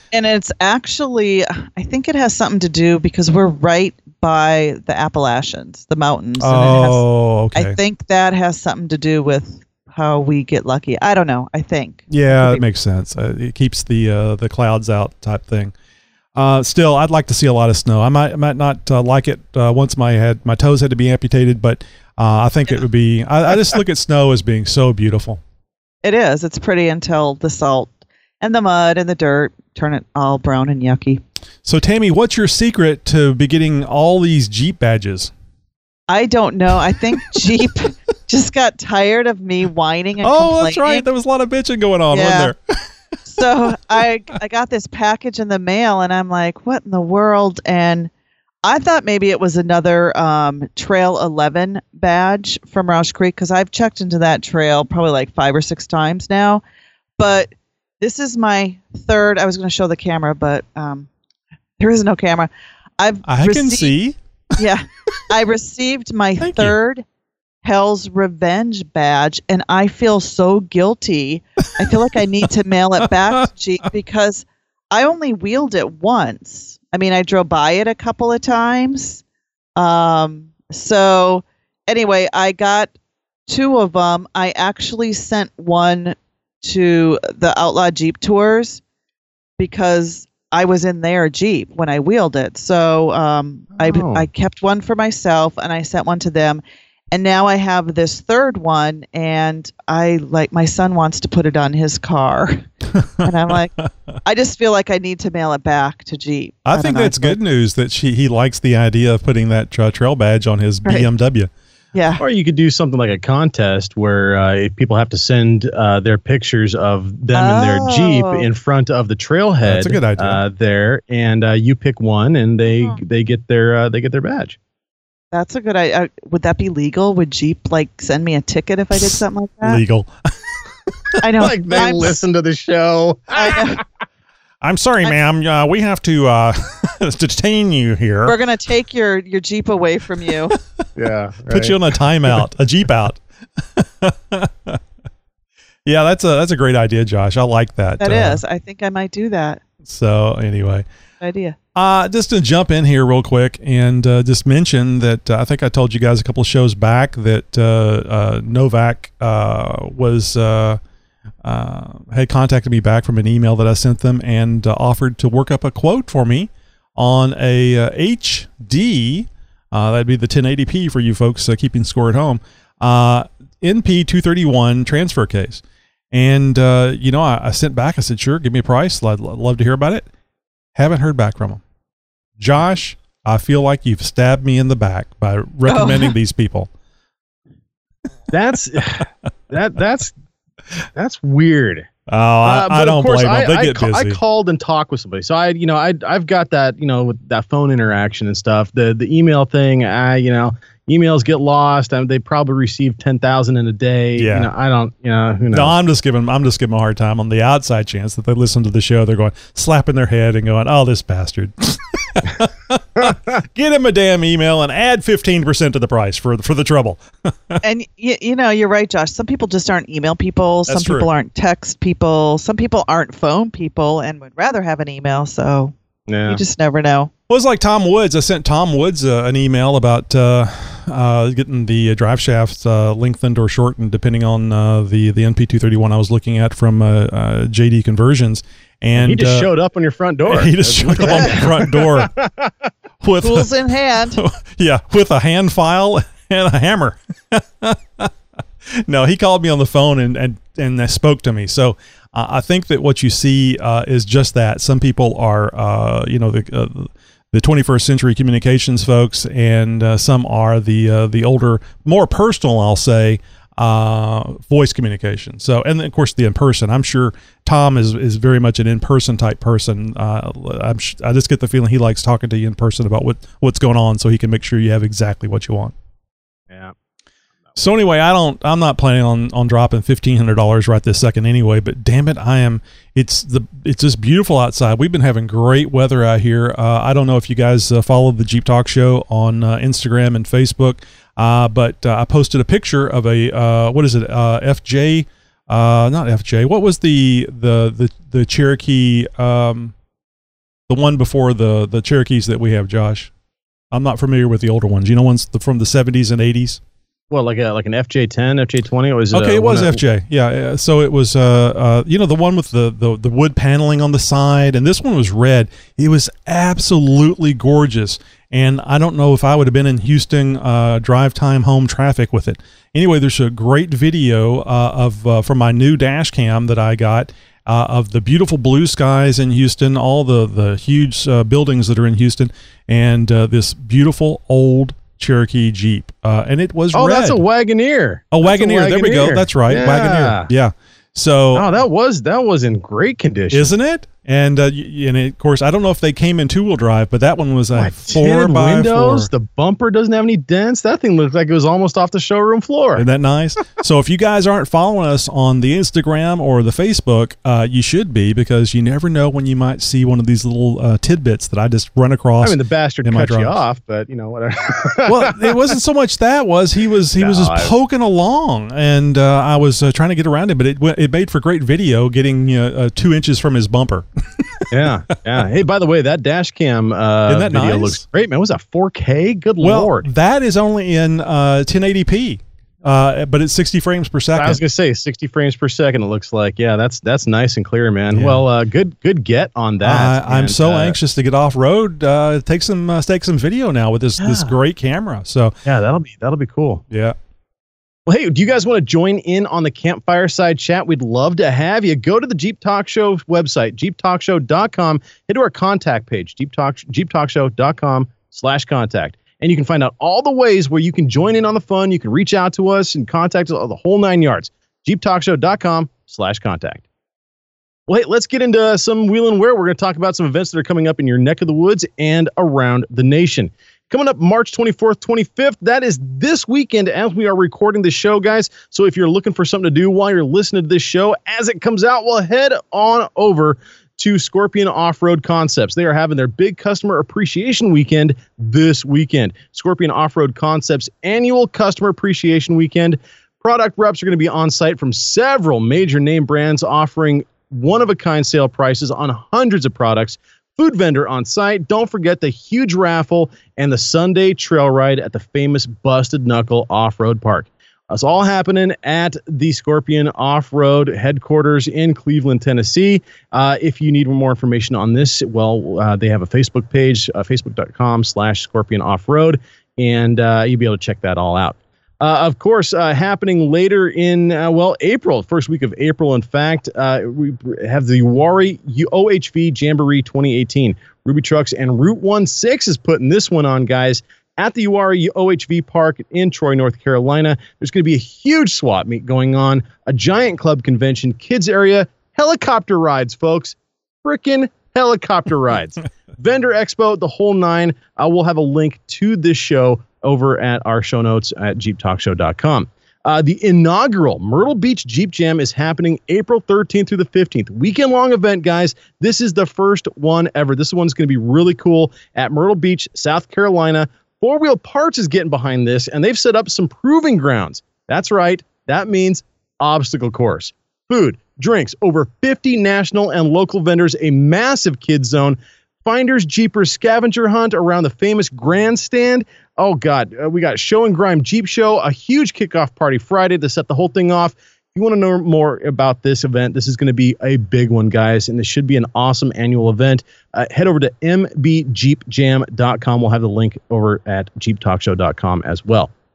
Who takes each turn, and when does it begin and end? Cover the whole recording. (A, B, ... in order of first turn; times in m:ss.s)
0:00.1-0:07.0 A
0:06.4-0:07.8 B
0:07.5-0:12.6 A
0:12.1-0:15.7 B
0:16.4-0:25.4 B
0:26.0-0:31.2 A
0:31.6-0:35.3 B
0:36.1-0:41.0 A
0:40.2-0:42.6 B
0:42.1-0:42.5 A
0:43.3-0:48.1 A
0:48.6-0:56.6 A
0:57.2-1:01.1 A
1:01.8-1:04.0 A
1:03.2-1:04.2 B
1:04.6-1:07.0 A
1:06.4-1:06.8 B
1:07.6-1:19.2 A
1:19.8-1:22.9 A
1:23.5-1:28.8 A
1:29.6-1:42.6 A
1:33.8-1:34.3 C
1:43.0-1:43.2 B
1:43.2-1:43.7 A
1:43.8-1:44.1 B
1:44.2-1:47.4 A
1:46.6-1:51.5 B
1:52.0-1:52.2 A
1:52.2-2:04.6 C
1:57.3-1:58.5 A
1:59.6-2:00.4 B
2:05.3-2:09.8 A
2:09.0-2:10.1 B
2:11.2-2:12.2 A
2:11.4-2:13.8 C
2:13.4-2:13.8 A
2:14.6-2:18.4 B
2:18.3-2:20.5 A
2:21.0-2:21.8 C
2:21.5-2:23.2 B
2:23.8-2:24.8 B
2:25.9-2:28.4 B
2:28.0-2:29.6 A
2:29.8-2:30.9 B
2:31.2-2:31.6 A
2:31.8-2:40.8 B
2:41.4-3:00.1 B
3:00.8-3:01.6 B
3:02.4-3:06.7 B
3:05.7-3:06.1 A
3:08.3-3:10.2 C
3:11.0-3:11.9 C
3:12.1-3:14.2 B
3:12.4-3:25.8 C
3:24.2-3:24.5 B
3:25.5-3:37.6 B
3:37.6-3:45.7 A
3:40.7-3:41.1 B
3:46.1-3:46.4 C
3:46.3-3:47.1 A
3:47.3-3:59.5 B
3:59.0-4:02.7 C
4:00.3-4:02.1 B
4:03.0-4:03.5 B
4:03.2-4:04.2 A
4:04.2-4:08.1 B
4:08.9-4:35.7 B
4:37.6-4:59.7 B
5:00.7-5:03.1 B
5:03.7-5:06.6 B
5:07.1-5:09.8 C
5:09.1-5:37.2 B
5:36.7-5:40.3 C
5:38.1-5:41.5 B
5:41.3-5:43.5 C
5:43.3-5:49.1 B
5:47.5-5:52.9 C
5:52.8-6:03.4 B
6:02.2-6:05.4 C
6:04.9-6:13.8 B
6:07.0-6:07.5 C
6:14.5-6:19.9 C
6:17.1-6:17.8 B
6:19.4-6:24.4 B
6:24.2-6:30.8 C
6:27.9-6:28.2 B
6:29.6-6:35.4 B
6:34.0-6:34.4 C
6:35.4-6:36.6 C
6:36.7-6:37.0 B
6:37.9-6:56.6 C
6:57.7-9:05.7 C